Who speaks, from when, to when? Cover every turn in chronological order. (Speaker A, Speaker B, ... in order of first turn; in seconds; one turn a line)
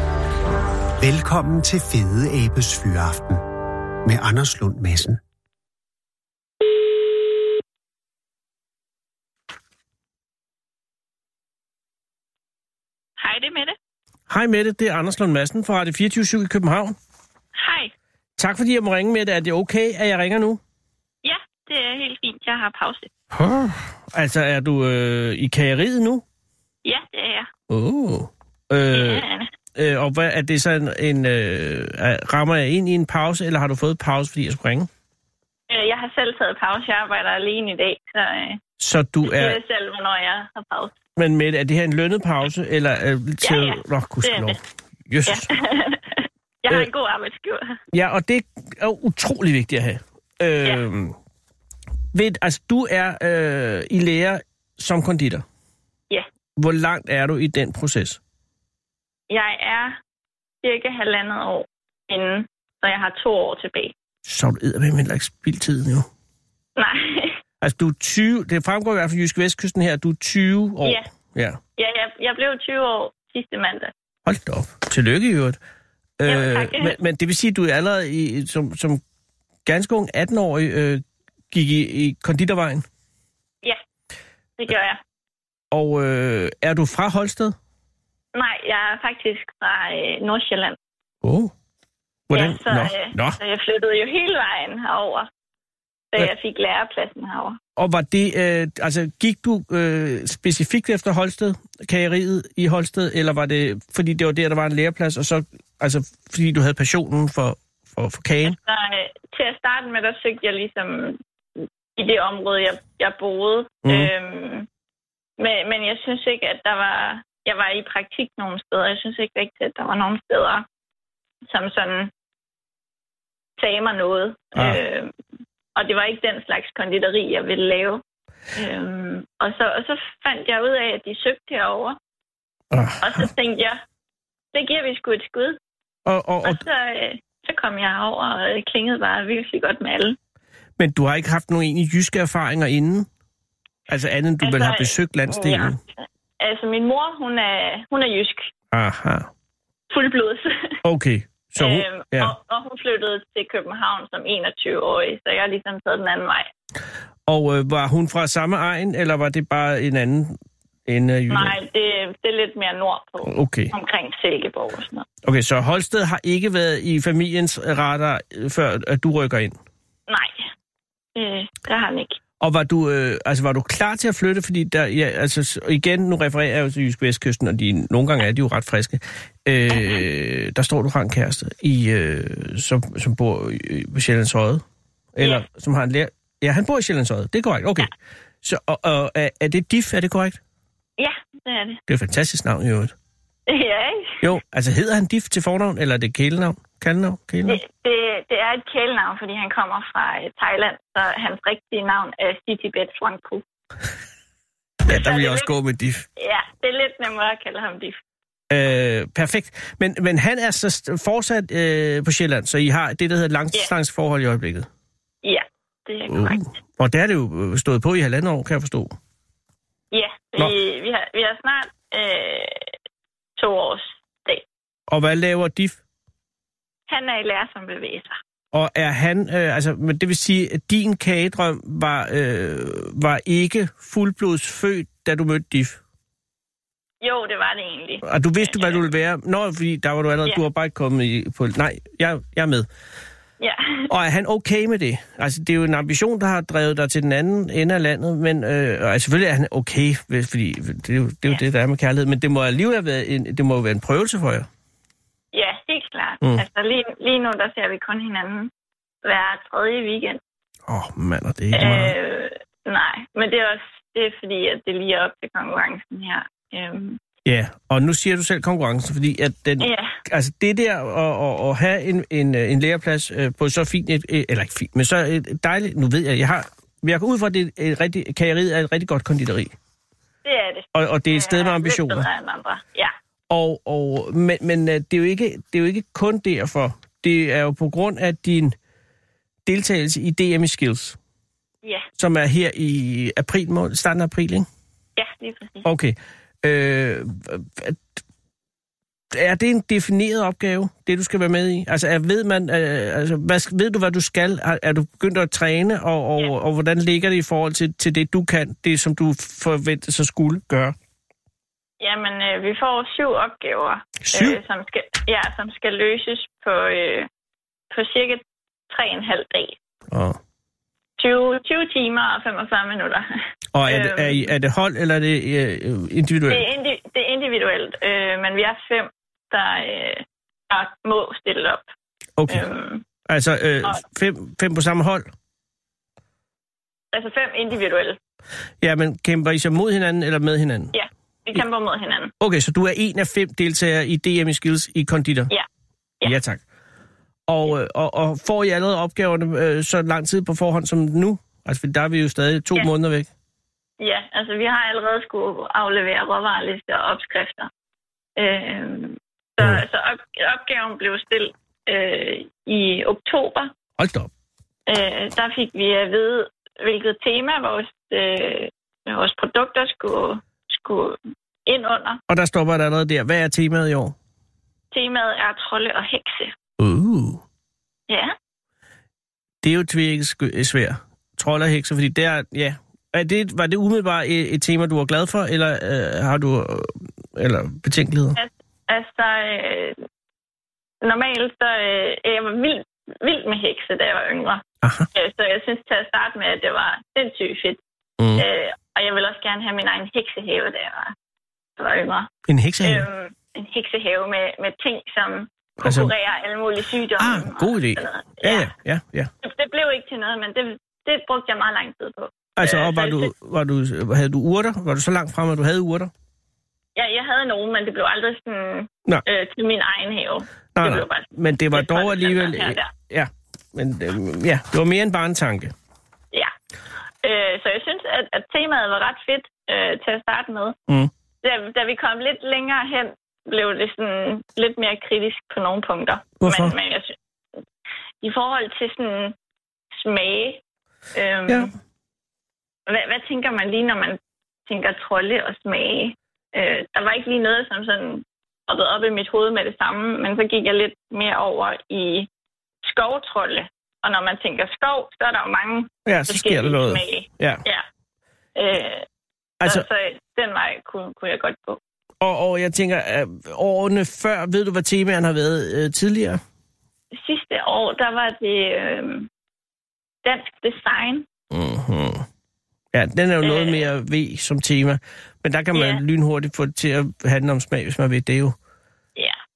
Speaker A: 1.0-3.4
Speaker A: 4.0-5.2
Speaker B: 13.2-13.8
Speaker C: 14.3-16.9
Speaker B: 17.6-17.9
Speaker C: 18.4-20.6
Speaker B: 21.2-23.1
Speaker C: 23.4-26.2
Speaker B: 26.8-27.5
Speaker C: 27.7-34.9
Speaker B: 28.9-29.5
Speaker B: 35.7-38.6
Speaker C: 38.8-39.6
Speaker B: 39.2-40.9
Speaker C: 41.1-45.5
Speaker B: 43.4-44.6
Speaker B: 45.2-47.8
Speaker C: 47.9-51.1
Speaker C: 52.1-55.4
Speaker C: 56.6-58.2
Speaker B: 59.3-60.0
Speaker B: 60.6-63.9
Speaker C: 64.2-66.1
Speaker B: 66.8-67.4
Speaker C: 67.6-71.6
Speaker B: 71.8-73.9
Speaker C: 74.2-75.6
Speaker C: 76.2-79.0
Speaker B: 76.2-77.0
Speaker C: 79.7-82.8
Speaker B: 84.6-85.0
Speaker C: 85.7-87.5
Speaker B: 88.3-90.8
Speaker C: 91.2-91.5
Speaker C: 92.3-93.4
Speaker B: 92.3-95.3
Speaker B: 96.1-97.6
Speaker C: 97.8-108.6
Speaker B: 108.5-114.7
Speaker C: 113.8-114.1
Speaker B: 115.4-120.6
Speaker B: 121.5-122.1
Speaker B: 123.6-125.1
Speaker B: 125.8-128.0
Speaker B: 128.6-132.0
Speaker C: 132.7-133.3
Speaker B: 133.0-133.8
Speaker B: 134.5-135.6
Speaker C: 136.1-136.6
Speaker B: 136.4-140.2
Speaker C: 140.8-143.1
Speaker C: 143.9-145.8
Speaker B: 144.4-145.8
Speaker B: 146.4-148.5
Speaker C: 148.7-149.3
Speaker B: 149.9-150.8
Speaker C: 150.8-152.3
Speaker B: 151.6-156.5
Speaker C: 157.3-160.3
Speaker C: 160.9-161.6
Speaker B: 161.3-165.1
Speaker C: 163.2-163.7
Speaker C: 165.2-169.6
Speaker B: 170.1-170.5
Speaker B: 171.2-172.2
Speaker C: 172.4-184.6
Speaker B: 179.7-180.0
Speaker C: 185.1-187.9
Speaker C: 188.4-190.4
Speaker B: 191.0-191.8
Speaker C: 191.9-192.9
Speaker B: 193.5-194.2
Speaker C: 194.2-197.6
Speaker B: 197.4-203.4
Speaker C: 204.8-206.1
Speaker B: 204.9-205.5
Speaker B: 206.2-208.0
Speaker C: 208.5-214.7
Speaker B: 215.2-216.5
Speaker C: 216.1-218.9
Speaker B: 219.9-222.7
Speaker B: 223.4-224.4
Speaker C: 224.9-225.8
Speaker B: 226.9-228.2
Speaker C: 228.5-235.8
Speaker B: 237.0-238.8
Speaker C: 238.0-242.7
Speaker B: 243.4-243.9
Speaker C: 243.9-254.5
Speaker B: 255.3-258.5
Speaker B: 259.0-260.2
Speaker C: 260.7-261.9
Speaker B: 261.5-267.0
Speaker C: 267.2-279.5
Speaker B: 269.6-269.9
Speaker B: 280.2-282.9
Speaker C: 280.7-282.1
Speaker C: 283.3-288.5
Speaker C: 289.4-291.0
Speaker C: 292.0-294.5
Speaker B: 295.0-295.7
Speaker C: 295.6-297.8
Speaker C: 299.1-310.7
Speaker B: 311.8-317.1
Speaker C: 314.0-314.4
Speaker B: 317.7-319.6
Speaker C: 319.9-320.2
Speaker B: 321.0-323.1
Speaker C: 323.5-326.4
Speaker B: 323.6-324.3
Speaker B: 326.3-331.6
Speaker C: 332.2-332.4
Speaker B: 332.3-332.8
Speaker C: 333.1-335.1
Speaker B: 336.9-338.0
Speaker C: 338.6-340.7
Speaker B: 340.7-342.1
Speaker C: 342.2-345.3
Speaker C: 346.0-346.4
Speaker C: 347.3-353.1
Speaker B: 353.8-357.5
Speaker B: 358.2-363.5
Speaker C: 363.8-364.1
Speaker B: 364.7-372.0
Speaker C: 372.1-373.9
Speaker B: 374.7-376.3
Speaker C: 376.6-377.2
Speaker B: 377.9-378.1
Speaker C: 379.4-388.2
Speaker B: 388.1-389.8
Speaker B: 390.8-397.6
Speaker C: 394.6-394.9
Speaker C: 398.0-398.2
Speaker B: 398.2-400.9
Speaker B: 401.6-402.1
Speaker C: 402.3-402.9
Speaker B: 402.6-408.5
Speaker C: 405.6-405.9
Speaker C: 407.0-409.1
Speaker B: 409.2-413.1
Speaker C: 412.4-415.9
Speaker B: 416.8-422.7
Speaker C: 420.6-425.5
Speaker B: 427.0-430.6
Speaker B: 431.2-436.9
Speaker C: 436.2-436.5
Speaker B: 438.0-439.1
Speaker B: 439.8-440.4
Speaker B: 440.9-441.5
Speaker B: 442.7-452.1
Speaker B: 452.6-457.6
Speaker C: 455.9-457.4
Speaker B: 458.4-458.9
Speaker B: 459.4-461.6
Speaker C: 462.0-466.2
Speaker B: 466.9-469.1
Speaker B: 470.0-471.1
Speaker C: 471.3-472.1
Speaker C: 472.7-478.3
Speaker B: 473.2-473.6
Speaker B: 475.5-475.8